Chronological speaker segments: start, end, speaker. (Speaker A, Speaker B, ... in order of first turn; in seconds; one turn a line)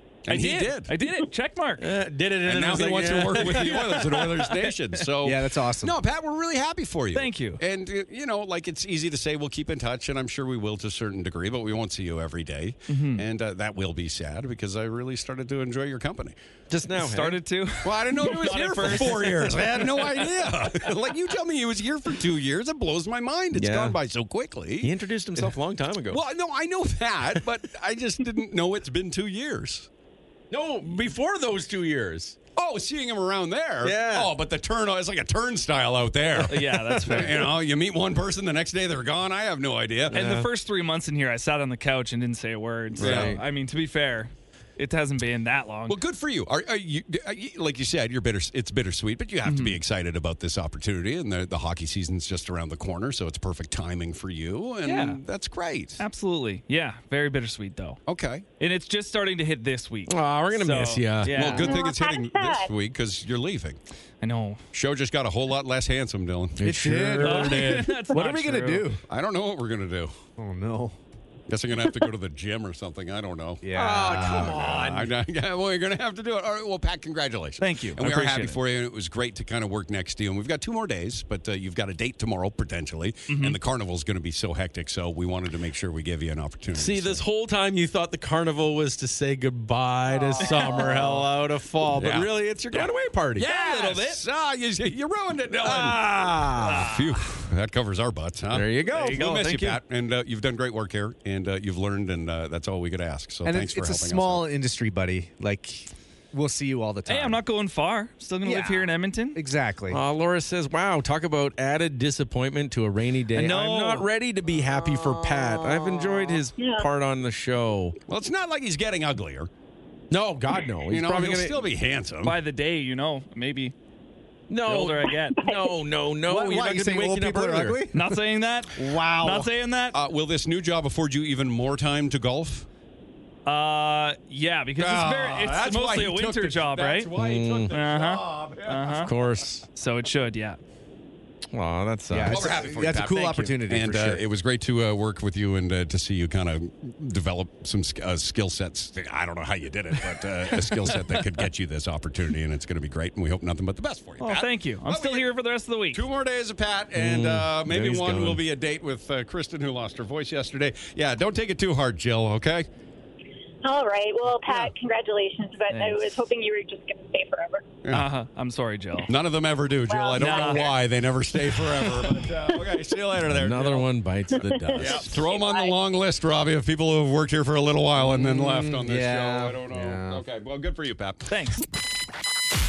Speaker A: 0.3-0.9
Speaker B: 0.3-1.9
Speaker C: 1.8-3.9
Speaker A: 2.4-16.4
Speaker B: 3.7-4.7
Speaker D: 5.2-5.9
Speaker B: 7.1-7.6
Speaker B: 12.9-13.2
Speaker C: 16.7-17.4
Speaker B: 16.9-20.0
Speaker A: 17.8-25.5
Speaker C: 23.5-24.0
Speaker C: 24.8-26.2
Speaker A: 26.1-29.9
Speaker C: 30.5-32.4
Speaker A: 32.5-40.2
Speaker C: 33.8-34.3
Speaker C: 36.4-37.4
Speaker B: 36.4-37.4
Speaker B: 40.1-46.0
Speaker C: 40.1-40.5
Speaker A: 42.9-43.4
Speaker C: 43.0-43.4
Speaker A: 45.9-56.0
Speaker B: 49.5-49.8
Speaker C: 54.9-55.2
Speaker B: 56.0-58.0
Speaker A: 58.1-58.5
Speaker B: 58.6-61.7
Speaker C: 60.1-61.4
Speaker A: 61.3-63.8
Speaker E: 61.5-62.7
Speaker B: 64.2-64.6
Speaker A: 64.7-66.7
Speaker C: 66.6-68.0
Speaker D: 66.6-69.0
Speaker B: 67.2-68.9
Speaker A: 69.1-70.1
Speaker D: 70.4-71.0
Speaker A: 71.5-87.2
Speaker D: 73.6-74.7
Speaker C: 73.7-75.1
Speaker B: 77.6-78.6
Speaker B: 83.3-83.6
Speaker C: 86.8-93.5
Speaker B: 90.4-91.0
Speaker A: 91.9-104.4
Speaker B: 93.4-94.2
Speaker C: 95.6-96.9
Speaker B: 96.6-97.0
Speaker C: 98.5-99.2
Speaker B: 98.9-99.8
Speaker D: 103.4-107.4
Speaker B: 107.1-109.4
Speaker D: 108.4-110.0
Speaker C: 109.9-118.0
Speaker B: 113.3-114.1
Speaker E: 116.6-116.9
Speaker A: 118.1-119.5
Speaker C: 120.1-121.6
Speaker A: 120.9-122.4
Speaker B: 122.2-123.7
Speaker C: 124.5-127.8
Speaker B: 124.6-125.4
Speaker E: 125.1-125.8
Speaker D: 126.3-128.0
Speaker B: 127.9-130.0
Speaker A: 128.8-132.7
Speaker B: 133.4-137.1
Speaker A: 134.8-139.1
Speaker C: 137.2-137.8
Speaker B: 137.7-139.1
Speaker C: 138.8-139.7
Speaker B: 139.7-140.6
Speaker C: 141.5-142.6
Speaker D: 142.1-144.2
Speaker A: 142.2-155.3
Speaker B: 154.2-156.0
Speaker A: 155.9-162.7
Speaker C: 156.9-158.4
Speaker E: 163.6-167.7
Speaker B: 165.7-166.2
Speaker B: 167.9-169.1
Speaker A: 169.1-173.9
Speaker E: 169.8-170.7
Speaker B: 170.2-170.7
Speaker B: 171.8-172.3
Speaker C: 173.3-175.2
Speaker E: 174.3-175.8
Speaker A: 174.7-181.3
Speaker D: 178.0-180.2
Speaker B: 181.3-181.6